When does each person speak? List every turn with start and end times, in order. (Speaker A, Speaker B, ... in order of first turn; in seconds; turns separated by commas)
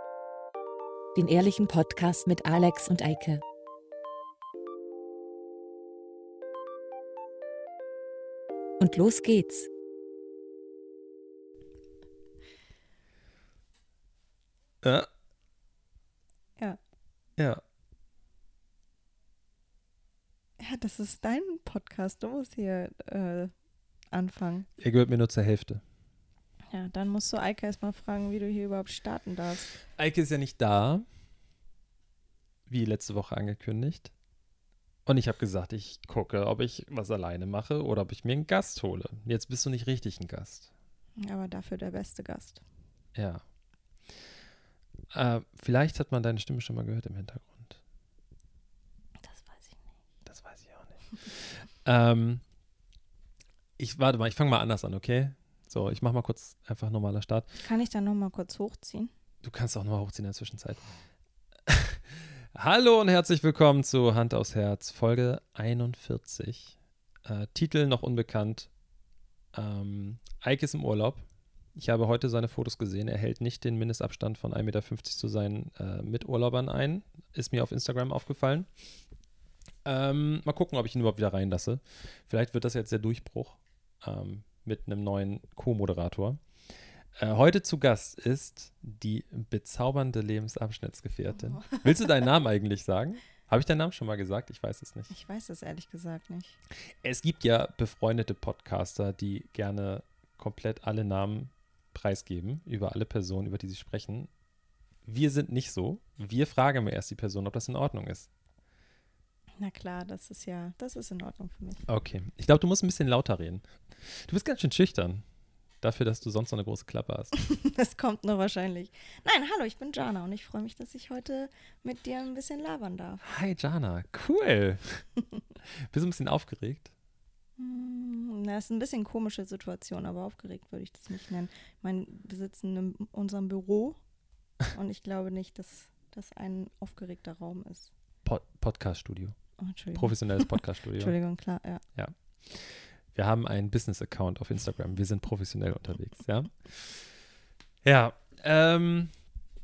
Speaker A: 1.1-3.4, Speaker A: 8.8-9.7, Speaker B: 14.8-15.1, Speaker C: 20.6-23.5, Speaker C: 24.1-24.7, Speaker B: 24.8-25.8, Speaker C: 26.7-29.8, Speaker B: 30.0-31.1, Speaker B: 32.7-34.1, Speaker B: 35.1-40.7, Speaker C: 41.2-42.6, Speaker B: 43.1-43.4, Speaker B: 45.1-47.8, Speaker C: 49.2-49.9, Speaker B: 50.3-52.4, Speaker B: 53.8-57.5, Speaker C: 57.6-59.1, Speaker B: 59.4-60.9, Speaker B: 61.7-68.7, Speaker B: 69.5-71.2, Speaker B: 71.8-78.7, Speaker B: 79.8-86.4, Speaker B: 87.2-95.1, Speaker C: 95.1-96.6, Speaker B: 97.0-104.3, Speaker B: 105.1-108.3, Speaker C: 109.6-111.8, Speaker B: 111.9-115.2, Speaker B: 115.8-117.3, Speaker C: 117.3-123.2, Speaker B: 123.2-125.0, Speaker B: 125.8-126.9, Speaker C: 127.6-134.0, Speaker C: 134.7-137.9, Speaker B: 138.2-139.4, Speaker C: 139.6-141.8, Speaker B: 139.9-141.2, Speaker B: 141.9-147.2, Speaker B: 147.8-149.1